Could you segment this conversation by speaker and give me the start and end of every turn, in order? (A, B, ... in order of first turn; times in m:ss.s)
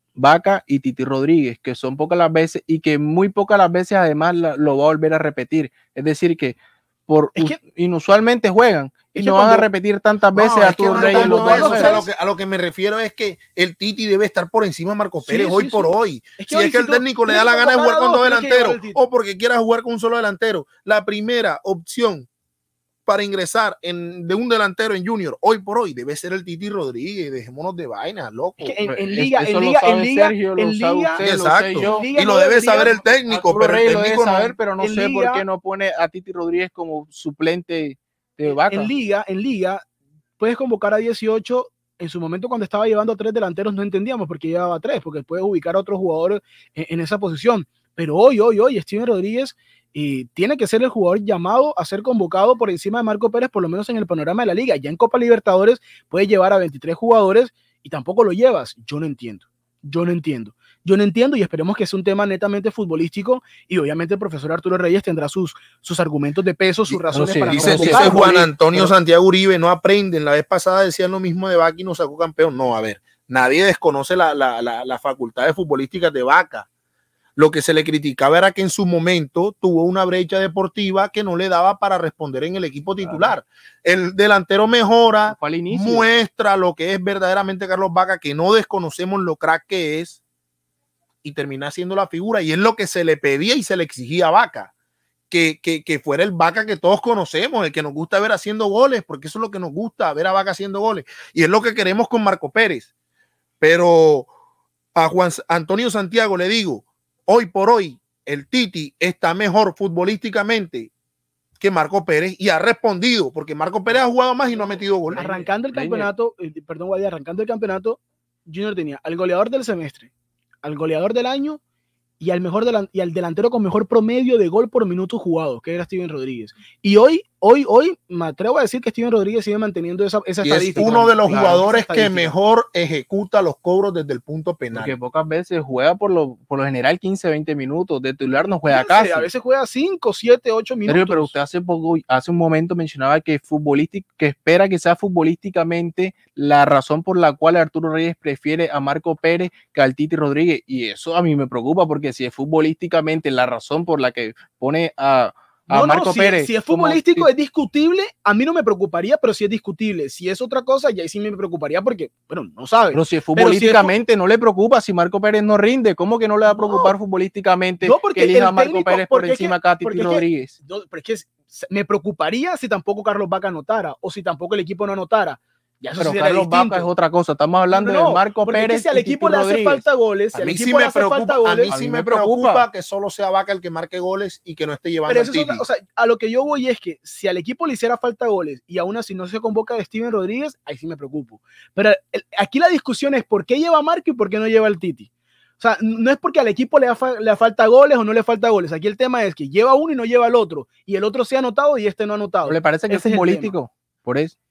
0:00.2-0:06.6 A
0:07.1-0:12.0 A
0:09.2-0:09.7 B
0:10.3-0:22.3 C
0:10.9-0:12.1 B
0:15.2-0:19.0 B
0:23.1-0:28.8 C
0:28.6-0:31.2 B
0:28.9-0:32.1 A
0:31.2-0:34.6 C
0:31.8-0:33.0 B
0:33.0-0:38.9 A
0:34.8-0:35.4 B
0:38.5-0:39.8 B
0:40.4-1:08.9 B
1:06.9-1:16.7 C
1:07.1-1:08.3 A
1:17.4-1:30.2 C
1:23.0-1:23.4 A
1:25.3-1:26.1 A
1:31.2-1:34.7 C
1:35.3-1:42.9 C
1:43.6-1:44.3 C
1:45.0-1:50.9 C
1:51.6-1:55.2 C
1:54.6-2:00.1 B
1:55.1-1:56.1 A
2:00.6-2:01.6 B
2:02.2-2:12.3 B
2:10.4-2:15.0 C
2:10.8-2:11.6 A
2:14.7-2:19.3 A
2:18.7-2:21.4 B
2:20.9-2:37.3 A
2:35.7-2:43.9 B
2:42.9-2:50.6 A
2:46.5-2:47.0 B
2:47.8-2:56.9 B
2:56.0-2:59.9 A
2:57.7-3:01.7 B
3:00.3-3:05.6 C
3:01.7-3:02.7 A
3:05.1-3:23.5 B
3:22.4-3:24.3 A